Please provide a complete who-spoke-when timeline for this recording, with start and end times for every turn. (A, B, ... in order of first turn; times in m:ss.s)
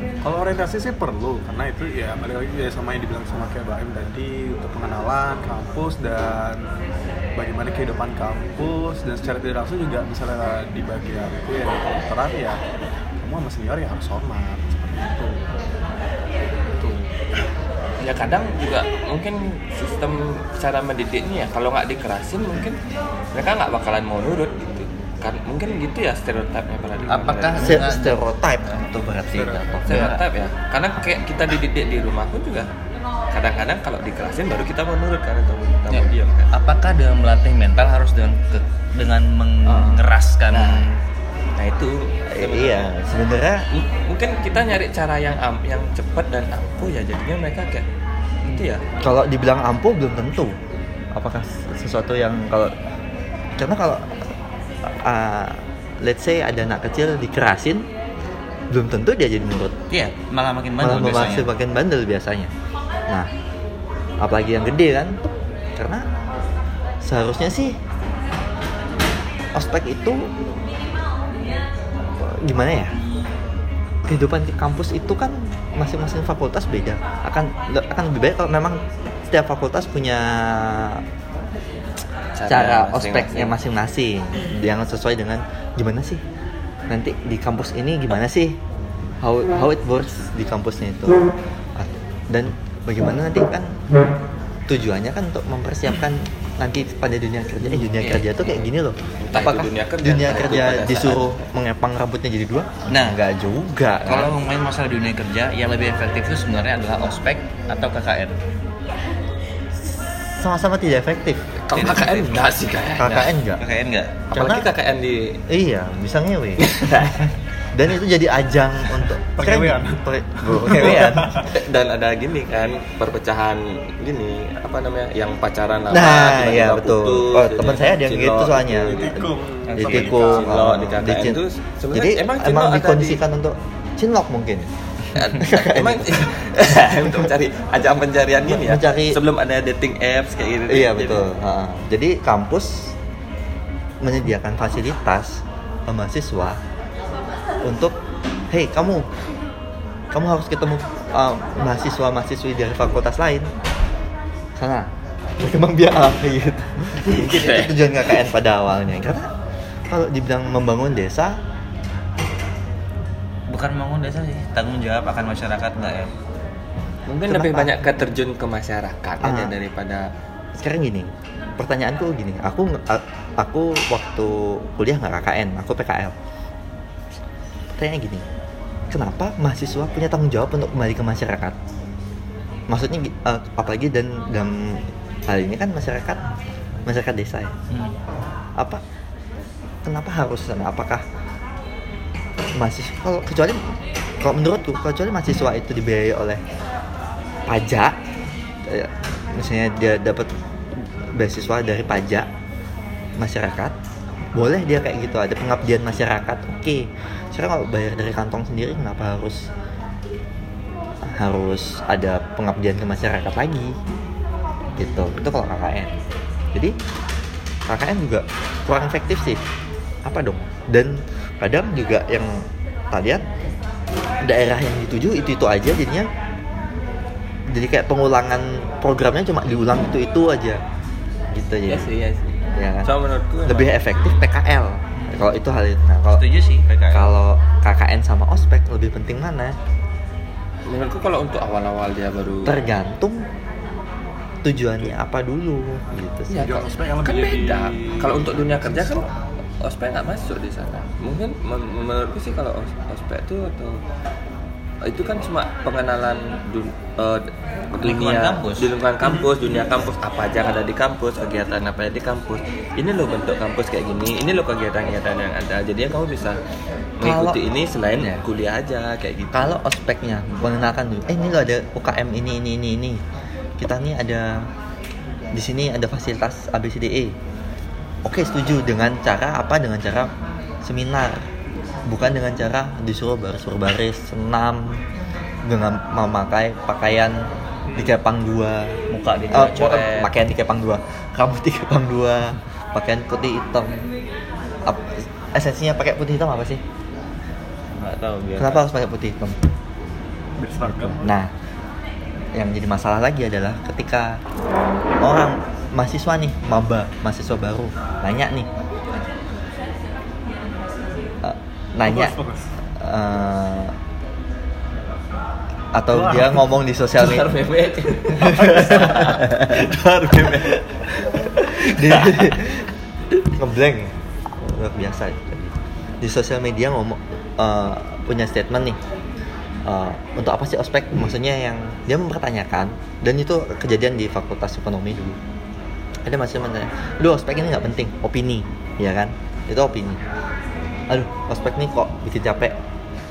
0:00.2-0:06.6 A
0:07.4-0:12.6 A
0:13.2-0:15.4 A
0:16.8-0:17.1 A
0:18.0-0:22.8 B
0:23.3-0:27.8 B
0:27.0-0:28.2 C
0:27.6-0:30.1 D
0:29.3-0:29.8 A
0:29.8-0:32.7 B
0:29.9-0:30.2 C
0:33.3-0:36.5 B
0:35.9-0:41.0 C
0:40.5-0:40.8 B
0:41.6-0:42.9 B
0:42.3-0:43.6 D
0:43.7-0:47.8 B
0:48.5-0:48.8 B
0:49.0-0:50.6 D
0:51.1-0:52.7 D
0:53.6-0:54.2 D
0:54.8-0:57.9 D
0:58.7-0:59.8 D
0:59.9-1:01.5 C
1:00.8-1:02.5 D
1:04.2-1:05.2 D
1:05.8-1:06.0 D
1:07.0-1:07.8 D
1:09.5-1:10.3 D
1:12.2-1:12.9 D
1:14.1-1:21.0 D
1:22.3-1:23.5 B
1:22.5-1:26.2 D
1:26.9-1:28.6 D
1:29.2-1:31.2 D
1:31.8-1:33.8 D
1:34.7-1:44.3 D
1:37.7-1:38.6 C
1:39.2-1:41.3 B
1:42.9-1:43.2 C
1:44.0-1:48.4 C
1:49.9-1:51.4 D
1:51.7-1:53.3 B
1:51.7-1:52.4 C
1:53.0-1:53.6 D
1:53.6-1:54.2 C
1:54.3-1:55.4 B
1:54.3-1:54.6 D
1:55.5-1:57.1 D
1:56.6-1:57.2 B
1:57.7-2:01.4 D
1:59.4-2:01.5 A
2:00.7-2:09.1 B
2:05.9-2:11.4 D
2:08.8-2:10.5 A
2:09.7-2:10.1 C
2:09.8-2:13.2 B
2:11.9-2:14.7 D
2:15.1-2:21.3 B
2:15.4-2:17.3 D
2:18.4-2:19.2 D
2:20.7-2:22.9 D
2:24.0-2:26.6 D
2:27.6-2:28.0 D
2:28.5-2:29.1 D
2:30.1-2:33.5 D
2:34.6-2:39.3 D
2:37.0-2:37.9 B
2:39.9-2:41.4 D
2:43.5-2:46.1 C
2:47.1-2:50.1 B
2:47.3-2:47.8 D
2:49.2-2:49.5 D
2:50.6-2:56.1 D
2:57.7-2:58.2 D
2:58.9-3:01.6 D
3:02.7-3:06.2 D
3:06.8-3:07.5 D
3:07.7-3:07.9 C
3:09.8-3:11.0 D
3:12.6-3:13.6 D
3:14.2-3:16.4 D
3:17.5-3:17.9 D
3:18.7-3:20.3 D
3:21.1-3:22.3 D
3:23.2-3:23.7 D
3:24.3-3:29.5 D
3:31.0-3:33.8 D
3:34.8-3:35.9 D
3:37.7-3:39.4 D
3:40.0-3:43.2 D
3:44.2-3:46.1 D
3:47.5-3:50.6 D
3:51.3-3:51.9 D
3:51.7-3:54.2 B
3:52.5-3:52.9 D
3:53.5-3:56.2 D
3:55.0-3:55.3 C
3:56.1-3:57.1 C
3:56.9-3:59.5 D
4:00.6-4:02.5 B
4:02.4-4:03.2 D
4:04.4-4:06.5 D
4:06.3-4:09.1 B
4:06.4-4:09.0 A
4:09.6-4:13.8 B
4:14.8-4:26.4 B
4:17.8-4:18.7 C
4:27.0-4:29.5 B
4:27.0-4:27.4 D
4:27.9-4:28.2 D
4:29.3-4:33.0 D
4:33.6-4:34.5 D
4:35.3-4:37.2 D
4:38.0-4:40.1 D
4:40.6-4:41.2 D
4:41.9-4:44.8 D
4:45.4-4:47.2 D
4:47.7-4:48.8 D
4:48.9-4:50.1 C
4:49.3-4:53.8 D
4:54.6-4:56.6 D
4:57.8-4:58.6 C
4:58.4-4:59.4 D
5:00.4-5:01.1 A
5:00.7-5:01.3 D
5:02.3-5:04.2 D
5:05.0-5:08.5 D
5:11.2-5:12.2 D
5:11.8-5:12.5 A
5:12.8-5:13.7 D
5:15.7-5:17.3 D
5:15.9-5:16.4 A
5:17.0-5:19.6 B
5:18.1-5:22.7 D
5:23.3-5:28.8 D
5:29.6-5:35.2 D
5:36.0-5:40.0 D
5:40.9-5:42.5 D